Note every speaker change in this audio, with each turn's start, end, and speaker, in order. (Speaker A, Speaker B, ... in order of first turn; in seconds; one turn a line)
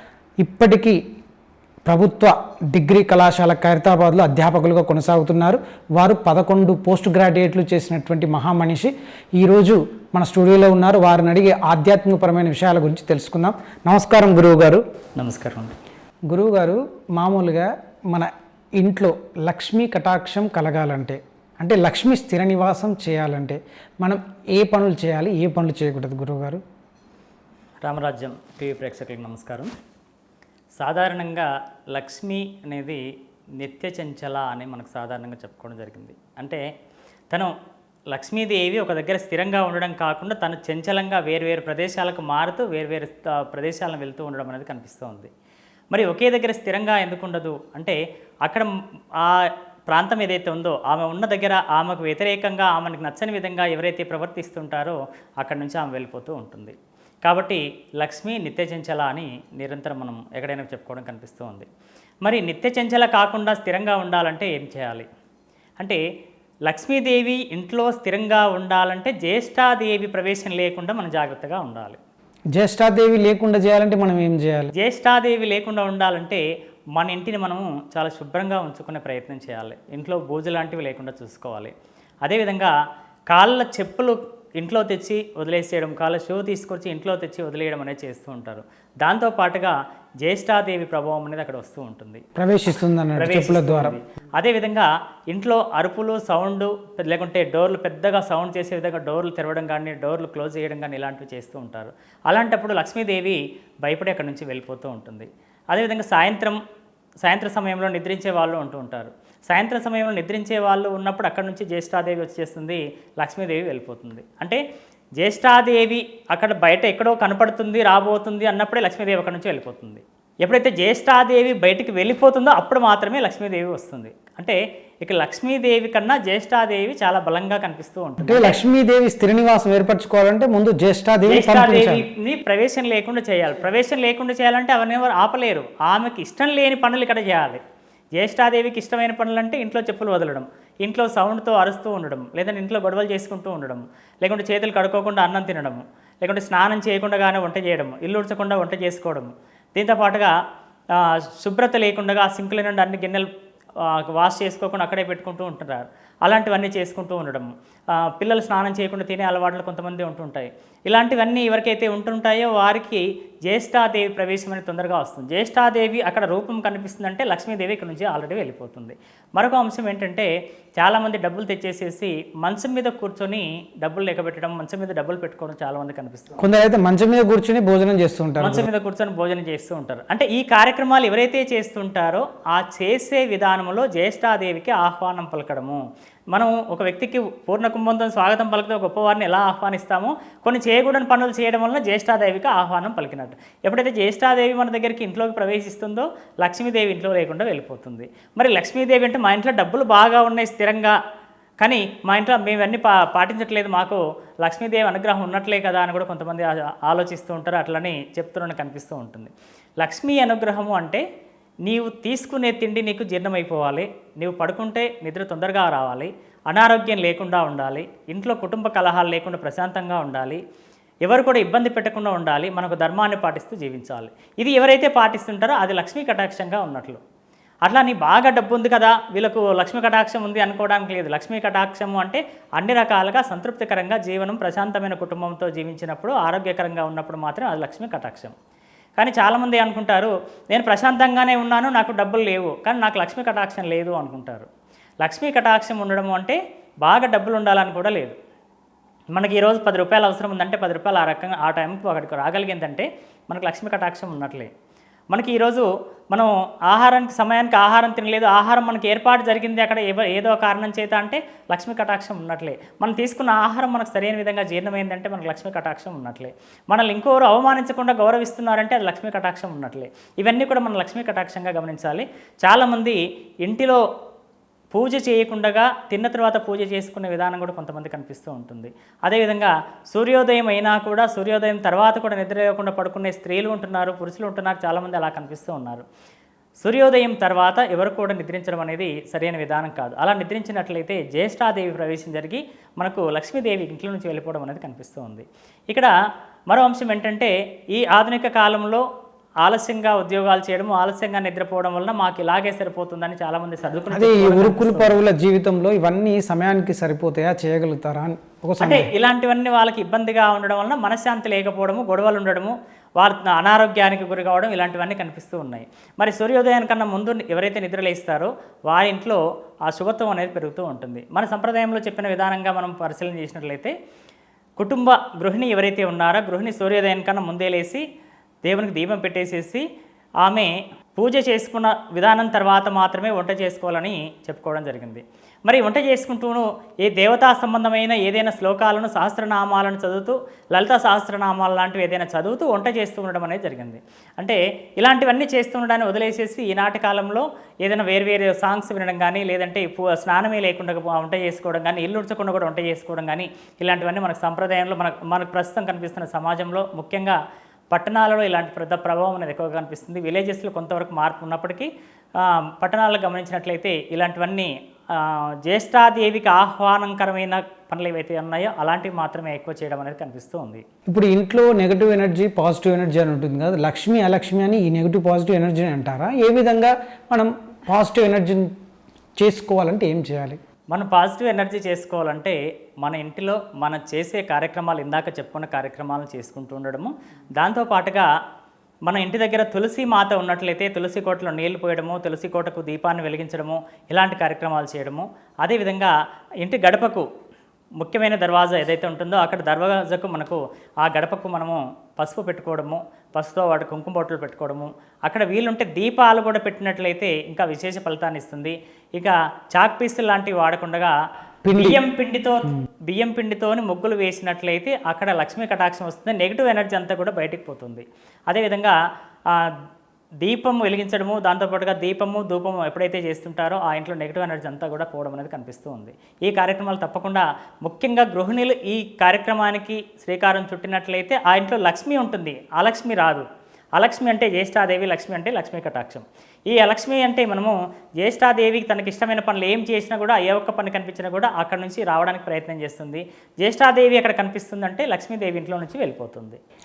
Speaker A: 0.4-1.0
Speaker A: 1.9-14.8
Speaker B: 15.2-15.7
Speaker A: 16.3-26.6
Speaker B: 27.8-29.7
Speaker B: 30.8-33.0
Speaker B: 33.6-36.6
Speaker B: 38.1-45.3
Speaker B: 45.9-61.7
Speaker B: 62.2-65.1
Speaker B: 66.7-72.0
Speaker A: 72.5-74.7
Speaker B: 74.8-76.4
Speaker B: 77.0-81.7
Speaker B: 82.2-82.7
Speaker B: 83.3-92.2
Speaker A: 92.4-94.0
Speaker B: 93.2-106.6
Speaker B: 107.2-114.6
Speaker B: 115.2-128.6
Speaker A: 128.2-132.0
Speaker B: 131.3-137.6
Speaker B: 138.2-150.3
Speaker B: 150.9-153.3
Speaker B: 153.8-176.4
Speaker A: 176.4-178.7
Speaker B: 178.4-185.8
Speaker B: 186.3-200.9
Speaker B: 201.6-211.0
Speaker B: 211.7-220.4
Speaker B: 221.0-227.0
Speaker B: 227.7-238.3
Speaker B: 239.0-244.5
Speaker B: 245.0-248.2
Speaker B: 249.1-254.5
Speaker B: 255.1-273.8
Speaker B: 274.7-285.9
Speaker B: 286.6-295.9
Speaker B: 296.5-298.8
Speaker B: 299.4-305.0
Speaker A: 303.9-308.9
Speaker B: 308.6-323.7
Speaker B: 324.6-327.8
Speaker B: 328.4-329.6
Speaker B: 330.2-357.2
Speaker B: 357.7-361.7
Speaker B: 362.2-370.6
Speaker A: 370.9-378.5
Speaker A: 379.2-380.4
Speaker B: 380.7-388.1
Speaker B: 388.9-397.1
Speaker B: 397.8-410.9
Speaker A: 411.4-411.8
Speaker B: 411.5-418.8
Speaker B: 420.2-433.2
Speaker B: 433.8-446.4